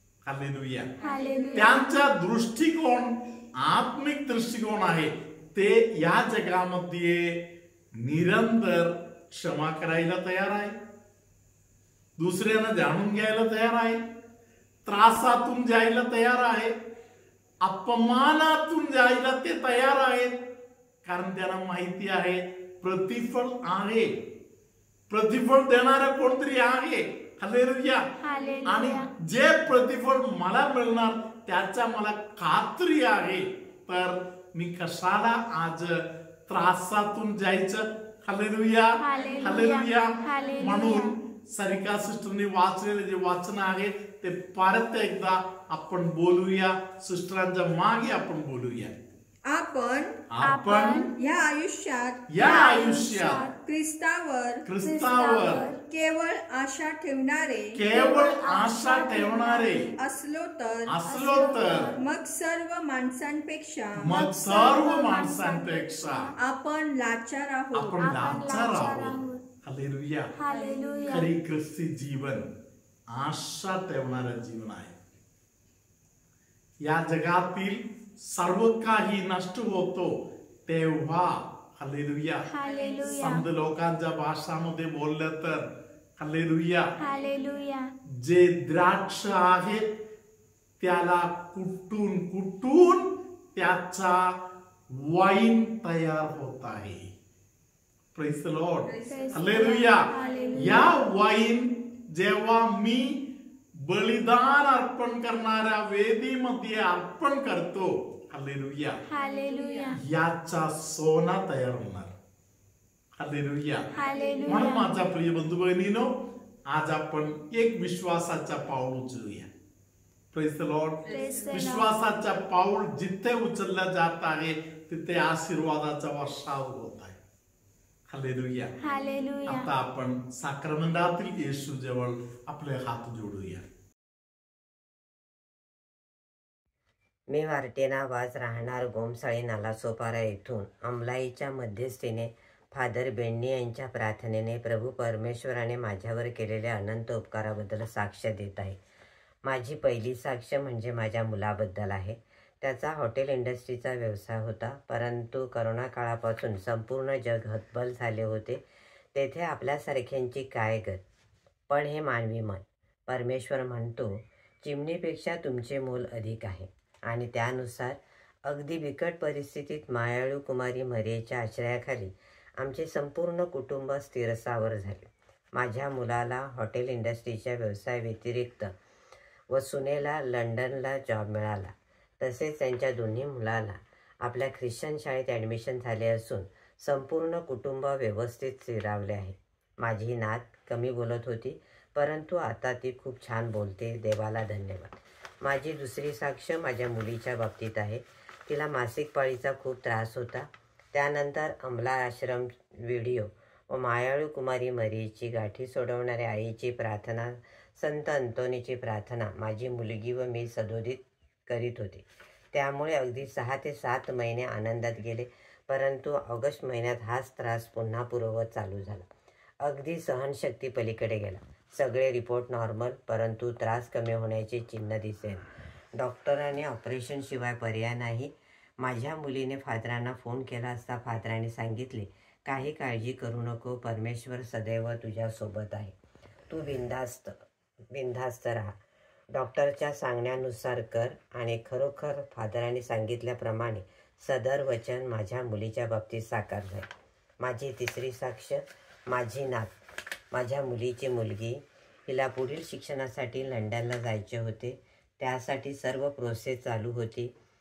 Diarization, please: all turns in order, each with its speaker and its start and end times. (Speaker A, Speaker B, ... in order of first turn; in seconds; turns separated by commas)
Speaker A: 0.2-0.9, Speaker B: 1.0-2.0, Speaker A: 1.5-7.4, Speaker A: 8.0-10.7, Speaker A: 12.2-14.0, Speaker A: 14.8-16.7, Speaker A: 17.6-20.3, Speaker A: 21.0-24.1, Speaker A: 25.1-28.1, Speaker B: 28.2-29.1, Speaker A: 28.6-35.9, Speaker A: 36.5-38.9, Speaker B: 39.0-41.1, Speaker C: 39.1-39.5, Speaker A: 39.4-48.9, Speaker C: 40.3-40.5, Speaker C: 49.5-50.1, Speaker A: 50.3-51.1, Speaker B: 50.4-51.1, Speaker C: 51.2-52.6, Speaker A: 52.3-53.4, Speaker B: 52.4-53.5, Speaker C: 53.6-54.6, Speaker A: 54.6-55.7, Speaker B: 54.7-55.8, Speaker C: 55.8-57.7, Speaker A: 57.7-59.9, Speaker B: 57.9-59.9, Speaker C: 59.9-61.0, Speaker A: 60.9-61.9, Speaker B: 61.0-62.0, Speaker C: 62.0-64.1, Speaker A: 64.0-66.3, Speaker B: 64.2-66.3, Speaker C: 66.4-68.2, Speaker A: 67.7-70.2, Speaker B: 68.0-69.4, Speaker B: 70.3-71.3, Speaker A: 71.0-72.5, Speaker A: 73.1-75.0, Speaker A: 76.9-80.1, Speaker A: 80.7-82.4, Speaker B: 82.5-83.4, Speaker A: 83.0-85.6, Speaker A: 86.2-86.8, Speaker B: 87.0-87.8, Speaker A: 88.2-89.8, Speaker A: 90.8-94.2, Speaker A: 95.1-97.0, Speaker A: 98.1-103.2, Speaker B: 98.9-101.0, Speaker A: 103.8-109.0, Speaker B: 109.1-110.0, Speaker A: 110.0-112.1, Speaker A: 113.2-113.9, Speaker B: 113.9-114.9, Speaker A: 114.5-116.1, Speaker A: 116.7-119.5, Speaker A: 120.3-127.2, Speaker B: 121.0-121.9, Speaker A: 128.1-128.7, Speaker B: 128.8-129.7, Speaker A: 129.4-133.6, Speaker D: 137.3-148.8, Speaker D: 149.4-158.6, Speaker D: 159.1-161.0, Speaker D: 161.7-178.7, Speaker D: 179.5-219.1, Speaker D: 219.6-225.4, Speaker D: 226.0-235.9, Speaker D: 236.5-237.4, Speaker D: 237.9-238.7, Speaker D: 239.3-246.9, Speaker D: 247.4-249.7, Speaker D: 250.3-257.3